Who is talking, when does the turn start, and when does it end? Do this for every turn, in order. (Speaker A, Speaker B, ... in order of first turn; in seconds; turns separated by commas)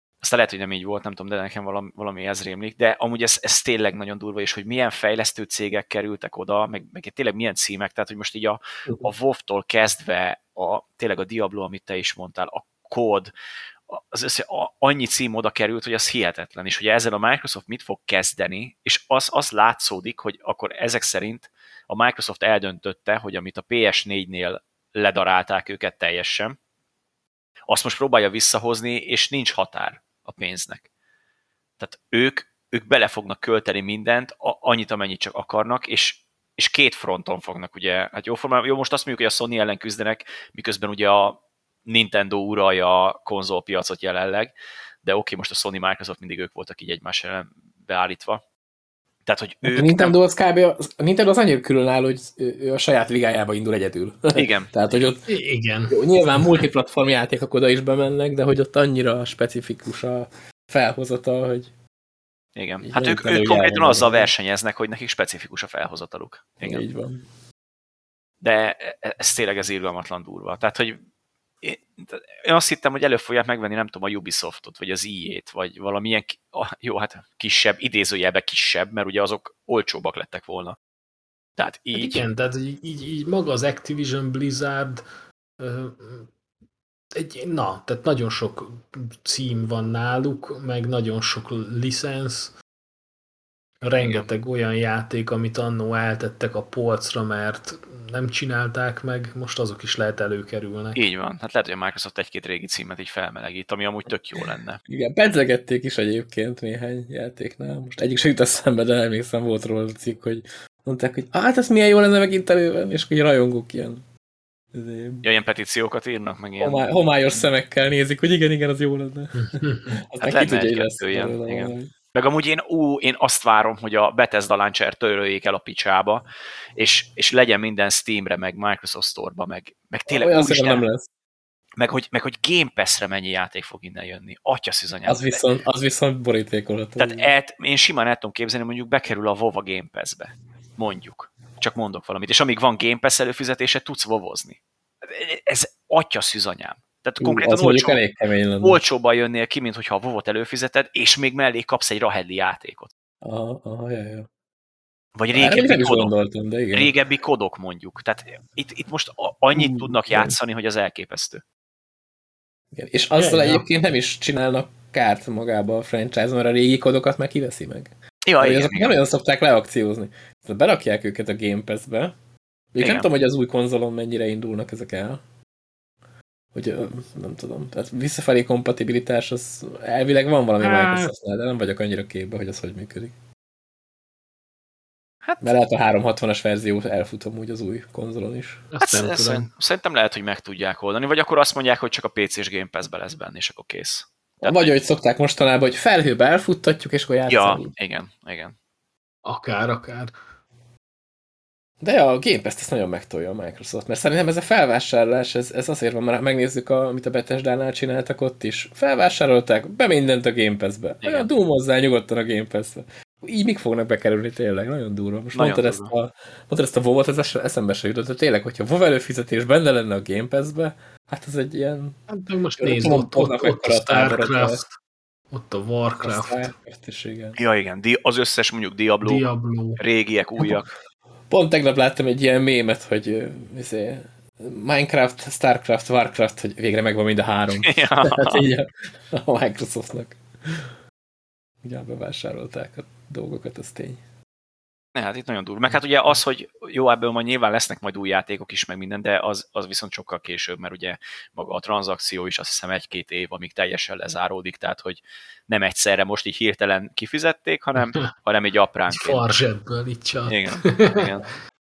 Speaker A: 0.2-13.3, Speaker A: 13.9-26.6, Speaker A: 27.7-30.9, Speaker A: 31.8-48.4, Speaker A: 49.3-50.2, Speaker B: 49.6-55.3, Speaker A: 54.3-54.7, Speaker C: 55.3-56.5, Speaker B: 55.9-61.7, Speaker A: 62.6-66.8, Speaker B: 62.8-64.3, Speaker B: 66.6-67.3, Speaker A: 68.4-71.0, Speaker A: 71.6-80.8, Speaker A: 81.6-82.3, Speaker C: 81.9-85.0, Speaker C: 85.6-86.3, Speaker C: 87.2-92.6, Speaker C: 93.8-101.0, Speaker A: 94.0-94.3, Speaker A: 101.0-104.8, Speaker B: 104.9-114.0, Speaker B: 114.7-115.2, Speaker A: 115.2-116.8, Speaker B: 116.6-121.9, Speaker C: 119.3-120.0, Speaker A: 120.2-130.8, Speaker B: 130.1-131.1, Speaker A: 131.8-135.6, Speaker B: 135.1-137.3, Speaker A: 137.0-148.0, Speaker B: 147.2-148.8, Speaker A: 148.6-152.9, Speaker B: 153.2-154.3, Speaker A: 155.2-156.1, Speaker B: 155.3-156.9, Speaker A: 156.7-161.4, Speaker B: 159.6-160.4, Speaker B: 162.7-172.2, Speaker C: 163.2-163.7, Speaker A: 168.2-169.1, Speaker B: 172.7-175.2, Speaker A: 172.8-173.1, Speaker B: 176.5-183.2, Speaker C: 180.6-181.1, Speaker A: 185.2-185.5, Speaker B: 185.4-188.7, Speaker C: 188.7-189.5, Speaker A: 188.8-194.6, Speaker B: 194.4-197.7, Speaker A: 197.3-198.6, Speaker C: 199.2-200.1, Speaker B: 201.8-222.0, Speaker A: 211.0-211.3, Speaker A: 215.3-215.9, Speaker C: 222.1-224.7, Speaker B: 222.6-224.6, Speaker C: 225.3-226.5, Speaker B: 226.0-227.4, Speaker A: 227.4-229.3, Speaker C: 229.0-229.8, Speaker A: 229.8-230.7, Speaker B: 231.3-240.7, Speaker A: 237.7-238.5, Speaker B: 241.6-244.0, Speaker A: 244.9-259.2, Speaker C: 257.8-258.1, Speaker C: 258.9-261.1, Speaker A: 260.3-261.3